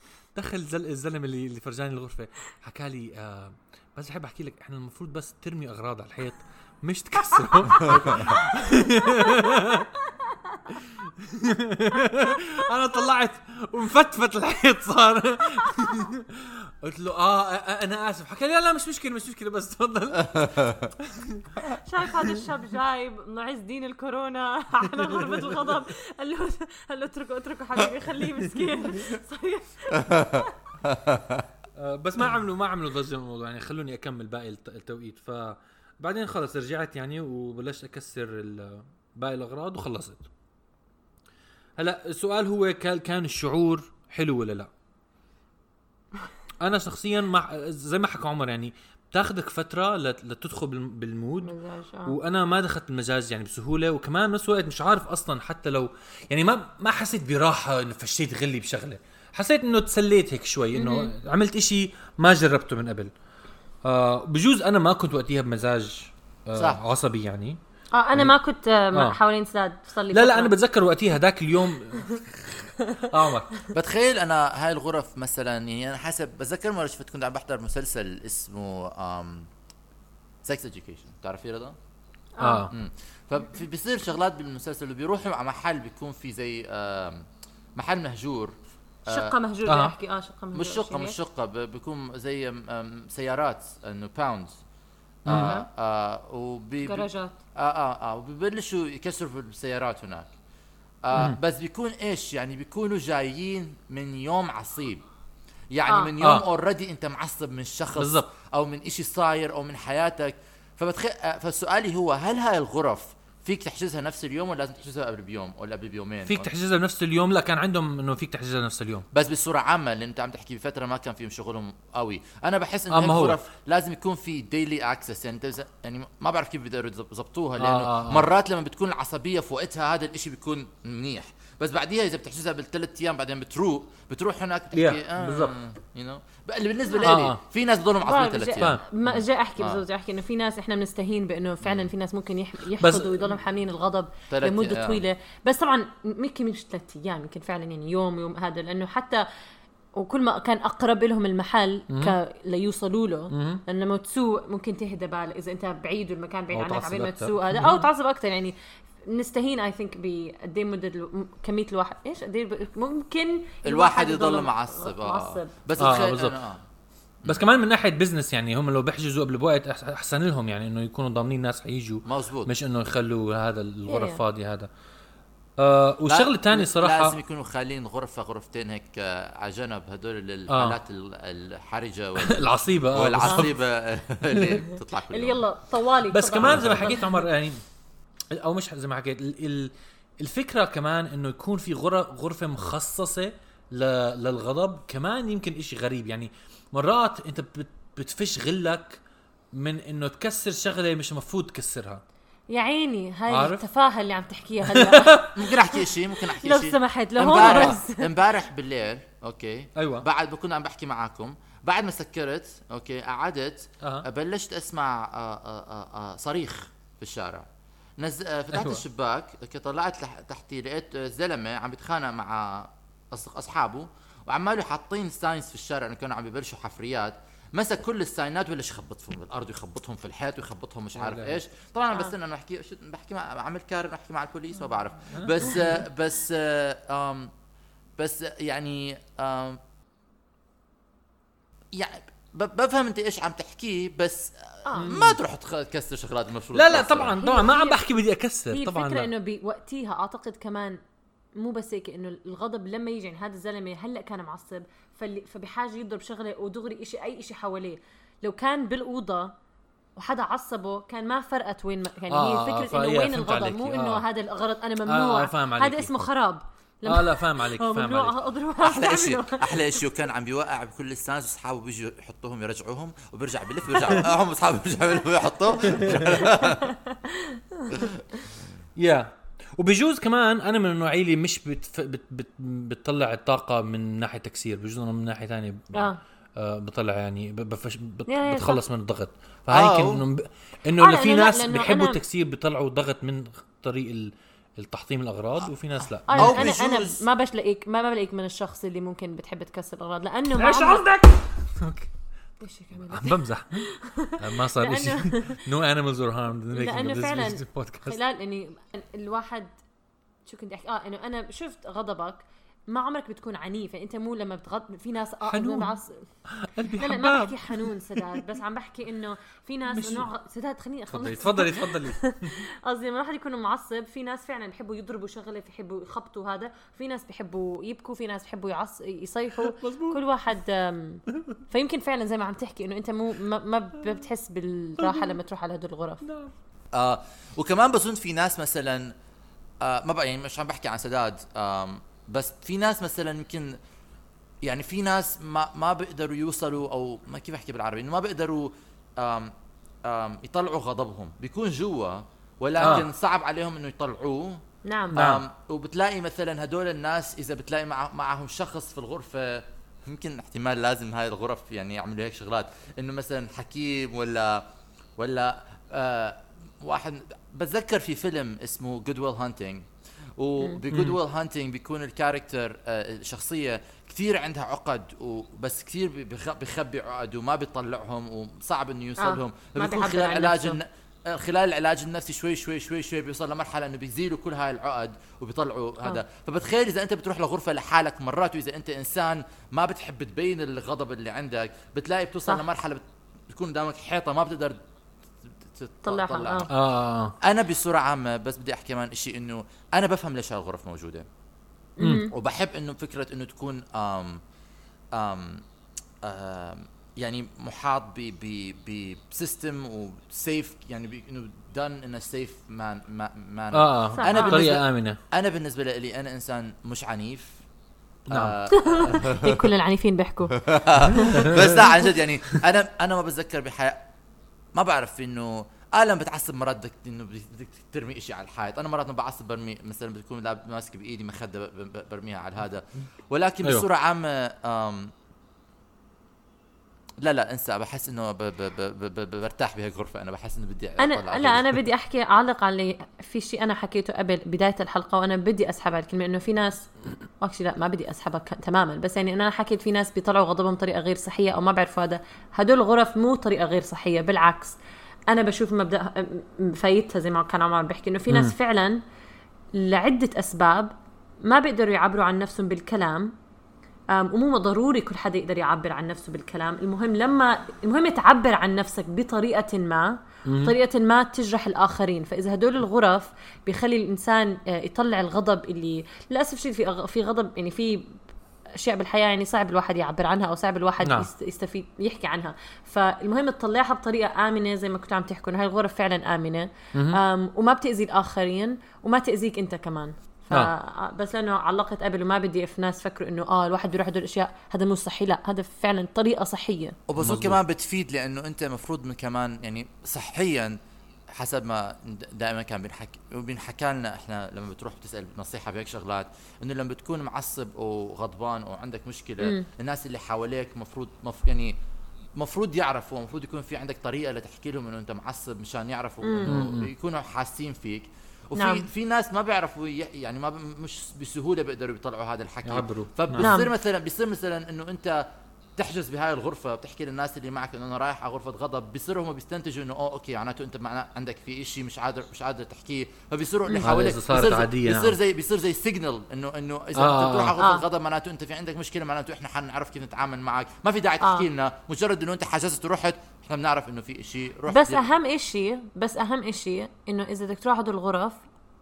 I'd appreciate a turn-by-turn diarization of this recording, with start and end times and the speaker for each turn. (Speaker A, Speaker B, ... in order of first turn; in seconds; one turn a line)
Speaker A: 0.3-9.9
Speaker B: 7.7-10.6
Speaker A: 10.7-21.6
Speaker C: 20.4-20.9
Speaker B: 21.6-30.5
Speaker A: 24.9-25.8
Speaker C: 29.9-31.5
Speaker A: 31.8-40.3
Speaker A: 41.8-44.7
Speaker A: 46.6-51.5
Speaker B: 51.4-52.2
Speaker A: 52.1-63.1
Speaker B: 60.7-61.1
Speaker A: 63.9-67.6
Speaker C: 66.6-66.8
Speaker B: 67.9-70.5
Speaker A: 70.1-73.6
Speaker B: 72.8-73.0
Speaker C: 73.7-79.5
Speaker C: 80.4-81.8
Speaker B: 82.4-82.7
Speaker A: 82.4-82.7
Speaker C: 82.7-88.6
Speaker C: 89.1-89.3
Speaker B: 89.1-91.2
Speaker A: 89.7-90.0
Speaker C: 90.5-94.6
Speaker C: 95.2-100.3
Speaker A: 95.3-95.5
Speaker B: 95.4-95.6
Speaker B: 96.8-97.4
Speaker C: 101.0-105.0
Speaker C: 105.7-116.5
Speaker B: 105.9-106.1
Speaker A: 106.2-106.5
Speaker A: 108.0-108.3
Speaker A: 116.3-119.1
Speaker C: 119.1-138.8
Speaker A: 122.9-123.4
Speaker A: 127.6-128.3
Speaker A: 134.7-135.6
Speaker B: 136.9-137.2
Speaker A: 137.0-137.4
Speaker B: 138.0-149.3
Speaker A: 138.6-138.8
Speaker C: 141.6-141.9
Speaker A: 142.8-143.3
Speaker C: 144.3-145.1
Speaker B: 150.0-165.5
Speaker A: 151.9-152.2
Speaker A: 153.3-153.6
Speaker A: 156.5-157.9
Speaker C: 163.7-166.6
Speaker A: 165.8-166.4
Speaker A: 167.3-174.7
Speaker C: 172.1-172.5
Speaker B: 173.9-174.2
Speaker A: 175.6-177.2
Speaker C: 176.1-185.4
Speaker A: 180.5-180.8
Speaker A: 182.2-183.6
Speaker A: 184.3-184.6
Speaker B: 185.1-187.2
Speaker A: 186.1-187.6
Speaker C: 186.4-186.9
Speaker A: 188.3-199.0
Speaker A: 199.5-202.0
Speaker B: 202.5-208.1
Speaker A: 203.3-203.6
Speaker A: 204.7-205.3
Speaker C: 205.3-237.3
Speaker A: 207.3-207.8
Speaker A: 209.8-210.1
Speaker A: 213.8-214.1
Speaker A: 218.5-218.8
Speaker A: 231.0-231.4
Speaker A: 235.1-235.7
Speaker C: 238.0-239.6
Speaker C: 241.7-247.2
Speaker A: 244.8-245.2
Speaker A: 246.5-249.1
Speaker B: 247.2-247.8
Speaker B: 248.5-250.8
Speaker B: 251.4-259.4
Speaker B: 260.0-269.8
Speaker A: 262.1-264.1
Speaker A: 264.9-266.0
Speaker A: 266.9-268.2
Speaker C: 268.6-276.7
Speaker A: 275.6-276.3
Speaker B: 276.2-278.0
Speaker C: 277.7-278.0
Speaker A: 278.8-296.5
Speaker B: 285.7-286.0
Speaker B: 288.1-288.6
Speaker C: 289.5-290.0
Speaker B: 290.8-292.0
Speaker C: 295.4-297.0
Speaker B: 296.1-300.9
Speaker A: 300.4-301.9
Speaker B: 302.4-305.4
Speaker A: 302.9-308.0
Speaker B: 306.5-309.5
Speaker B: 310.3-316.1
Speaker A: 315.3-315.8
Speaker A: 316.3-318.2
Speaker B: 316.8-336.0
Speaker A: 319.7-320.1
Speaker A: 320.9-322.4
Speaker A: 329.4-330.0
Speaker A: 334.8-335.1
Speaker A: 336.0-336.3
Speaker C: 336.7-338.9
Speaker C: 339.6-343.6
Speaker C: 344.4-349.3
Speaker C: 349.9-364.4
Speaker A: 352.6-352.9
Speaker B: 354.6-355.0
Speaker A: 354.9-355.2
Speaker C: 365.0-394.6
Speaker A: 370.7-371.0
Speaker B: 379.0-380.6
Speaker C: 395.4-396.5
Speaker B: 395.8-396.5
Speaker A: 396.5-397.1
Speaker C: 397.2-401.1
Speaker B: 401.8-402.1
Speaker A: 401.8-402.1
Speaker C: 402.1-404.2
Speaker C: 404.9-405.4
Speaker C: 406.0-417.4
Speaker A: 413.5-415.0
Speaker B: 414.0-414.4
Speaker C: 418.1-419.4
Speaker A: 418.1-418.4
Speaker B: 418.5-421.4
Speaker C: 420.4-423.8
Speaker A: 421.1-421.5
Speaker C: 424.5-434.9
Speaker C: 437.0-441.6
Speaker B: 440.8-454.6
Speaker B: 455.1-458.8
Speaker A: 458.1-458.4
Speaker B: 459.6-463.1
Speaker B: 463.9-478.0
Speaker A: 470.3-470.6
Speaker B: 478.6-496.8
Speaker A: 480.8-481.1
Speaker A: 486.7-487.0
Speaker C: 496.9-500.6
Speaker A: 497.0-497.4
Speaker C: 501.1-511.6
Speaker B: 509.2-509.5
Speaker C: 512.2-525.1
Speaker B: 516.0-516.3
Speaker A: 516.3-516.7
Speaker B: 518.4-518.7
Speaker A: 522.5-523.3
Speaker B: 523.2-523.5
Speaker C: 525.6-544.8
Speaker A: 533.6-535.0
Speaker A: 536.8-537.4
Speaker B: 537.4-537.6
Speaker B: 541.0-541.3
Speaker B: 544.5-548.2